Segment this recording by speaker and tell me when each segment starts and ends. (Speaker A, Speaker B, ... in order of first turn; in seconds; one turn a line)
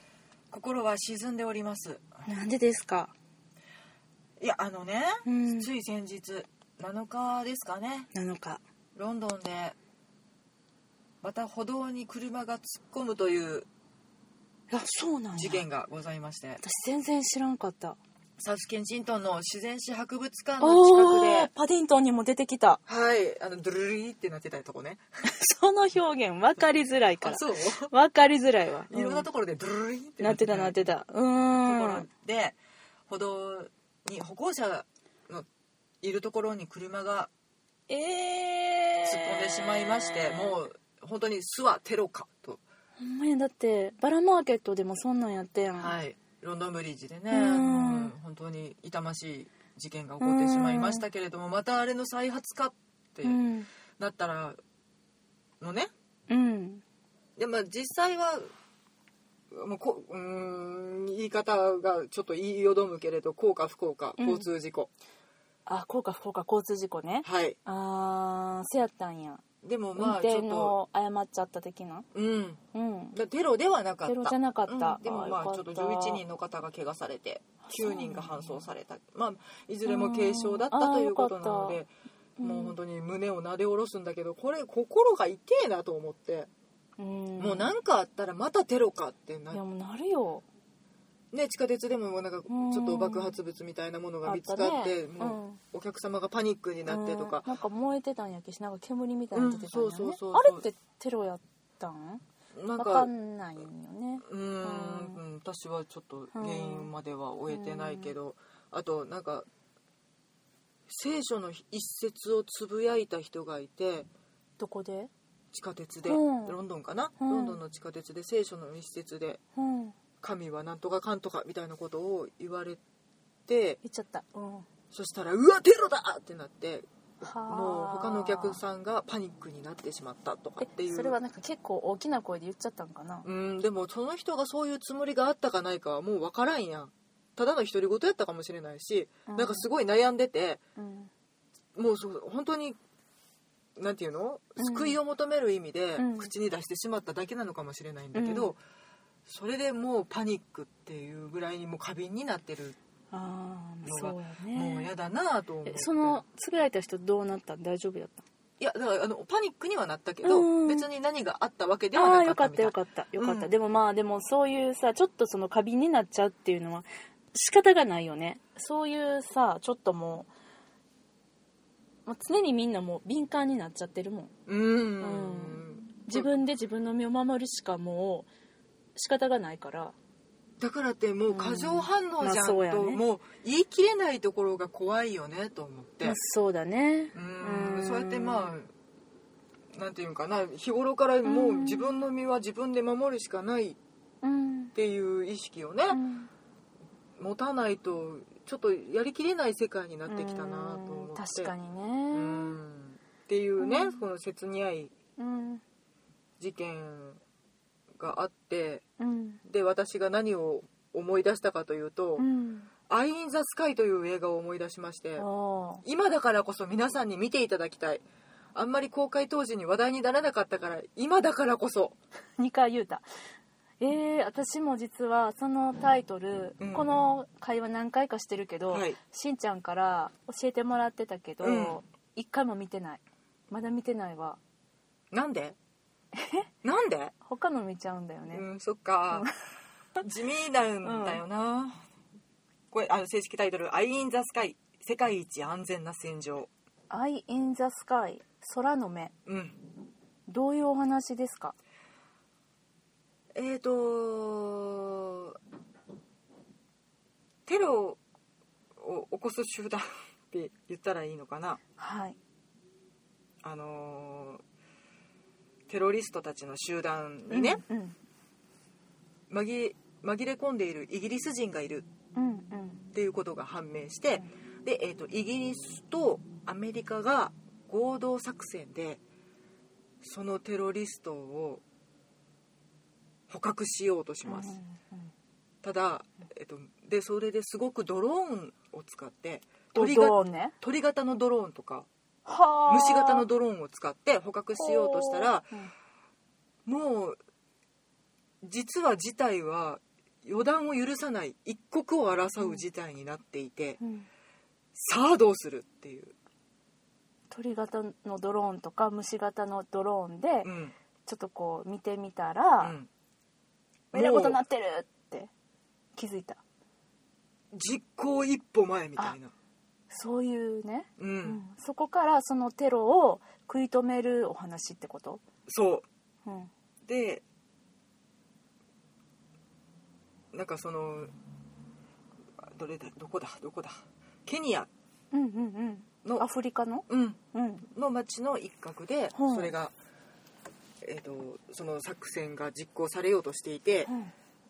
Speaker A: 0.5-2.0
Speaker B: 2.2-3.1
Speaker A: 4.4-8.1
Speaker B: 5.2-5.7
Speaker B: 8.1-8.6
Speaker A: 8.9-9.8
Speaker A: 11.2-13.7
Speaker B: 14.7-15.6
Speaker A: 15.3-16.6
Speaker B: 16.6-18.0
Speaker A: 18.4-21.5
Speaker B: 20.6-22.8
Speaker A: 22.9-25.0
Speaker B: 25.3-29.3
Speaker A: 27.2-27.9
Speaker A: 28.9-30.8
Speaker B: 30.2-32.0
Speaker A: 31.5-32.6
Speaker A: 33.1-35.5
Speaker A: 36.0-37.3
Speaker B: 37.9-40.6
Speaker A: 39.0-42.6
Speaker B: 43.0-46.0
Speaker A: 45.8-53.4
Speaker B: 47.3-48.1
Speaker B: 50.2-51.0
Speaker B: 53.2-53.7
Speaker A: 54.0-54.6
Speaker A: 55.6-55.9
Speaker B: 56.3-56.8
Speaker A: 57.4-58.5
Speaker A: 59.5-64.9
Speaker B: 64.2-64.5
Speaker B: 65.7-69.4
Speaker A: 67.2-67.6
Speaker A: 69.6-70.8
Speaker B: 70.0-72.0
Speaker A: 72.1-72.6
Speaker B: 72.7-73.2
Speaker A: 73.1-86.5
Speaker B: 74.0-76.2
Speaker B: 77.6-78.7
Speaker B: 79.8-81.8
Speaker B: 82.4-82.8
Speaker B: 87.0-87.7
Speaker A: 87.4-89.6
Speaker B: 89.5-90.4
Speaker A: 91.3-97.5
Speaker B: 92.5-93.3
Speaker B: 94.2-95.6
Speaker B: 96.8-102.2
Speaker A: 99.3-100.7
Speaker A: 102.5-103.1
Speaker B: 102.8-105.2
Speaker A: 104.2-109.5
Speaker B: 106.3-106.9
Speaker B: 107.5-108.1
Speaker A: 110.9-114.1
Speaker B: 114.6-115.1
Speaker A: 115.5-119.4
Speaker B: 116.0-116.6
Speaker B: 117.2-117.6
Speaker B: 119.5-120.0
Speaker A: 120.2-122.8
Speaker A: 123.5-123.8
Speaker B: 123.8-124.7
Speaker A: 124.9-126.8
Speaker B: 127.2-128.6
Speaker A: 127.4-131.2
Speaker B: 130.6-133.3
Speaker A: 133.2-140.6
Speaker B: 139.3-139.7
Speaker B: 140.8-141.1
Speaker A: 141.8-142.8
Speaker A: 143.8-148.6
Speaker B: 144.6-145.0
Speaker B: 146.0-146.3
Speaker B: 148.1-148.5
Speaker A: 149.2-152.8
Speaker B: 153.1-154.9
Speaker A: 153.8-156.2
Speaker B: 155.7-158.2
Speaker A: 158.6-163.5
Speaker B: 160.2-160.9
Speaker B: 161.9-170.3
Speaker B: 172.1-174.3
Speaker A: 174.5-176.3
Speaker B: 175.0-178.3
Speaker B: 178.9-179.9
Speaker A: 180.6-186.2
Speaker B: 181.3-183.0
Speaker B: 186.0-188.5
Speaker A: 187.1-188.7
Speaker A: 189.7-193.8
Speaker B: 191.2-192.0
Speaker B: 194.2-194.7
Speaker A: 194.7-196.0
Speaker B: 195.9-196.3
Speaker A: 197.2-201.5
Speaker B: 200.1-202.6
Speaker A: 202.1-204.9
Speaker B: 203.6-204.1
Speaker B: 205.2-205.6
Speaker A: 206.4-207.2
Speaker A: 208.0-208.8
Speaker B: 209.0-209.4
Speaker A: 209.4-212.2
Speaker B: 212.2-212.7
Speaker A: 212.9-215.3
Speaker B: 215.2-215.8
Speaker A: 215.8-222.0
Speaker B: 222.4-223.0
Speaker B: 223.8-234.4
Speaker A: 226.6-226.9
Speaker A: 228.7-229.0
Speaker A: 231.4-231.8
Speaker A: 235.1-235.6
Speaker B: 236.1-236.5
Speaker A: 236.6-237.1
Speaker B: 237.2-238.4
Speaker A: 238.3-239.3
Speaker A: 240.0-241.8
Speaker B: 240.8-241.2
Speaker A: 242.7-246.5
Speaker B: 246.9-249.1
Speaker A: 249.2-249.6
Speaker B: 250.3-251.6
Speaker A: 253.3-255.4
Speaker A: 257.4-258.0
Speaker A: 258.8-261.6
Speaker B: 261.8-262.2
Speaker A: 263.4-264.4
Speaker A: 265.7-267.6
Speaker B: 267.3-268.0
Speaker A: 269.3-271.9
Speaker B: 272.1-272.8
Speaker A: 272.9-279.0
Speaker A: 280.0-281.6
Speaker A: 283.3-284.6
Speaker B: 284.3-285.1
Speaker A: 285.6-291.9
Speaker B: 289.7-290.5
Speaker B: 292.2-293.2
Speaker A: 292.7-295.5
Speaker B: 294.5-295.7
Speaker A: 296.6-297.2
Speaker A: 298.4-303.8
Speaker B: 303.8-304.1
Speaker A: 304.7-306.1
Speaker B: 307.3-310.5
Speaker A: 310.4-310.7
Speaker B: 311.1-312.8
Speaker A: 312.6-312.9
Speaker B: 313.9-315.3
Speaker A: 313.9-314.4
Speaker B: 315.9-316.4
Speaker A: 317.5-319.3
Speaker B: 319.9-325.2
Speaker A: 321.0-321.4
Speaker A: 325.5-325.9
Speaker B: 326.2-326.5
Speaker A: 326.8-327.2
Speaker A: 330.3-331.1
Speaker A: 332.4-334.7
Speaker B: 335.1-337.6
Speaker A: 336.9-337.2
Speaker A: 337.7-339.7
Speaker B: 339.1-339.5
Speaker A: 340.8-343.9
Speaker B: 343.9-344.1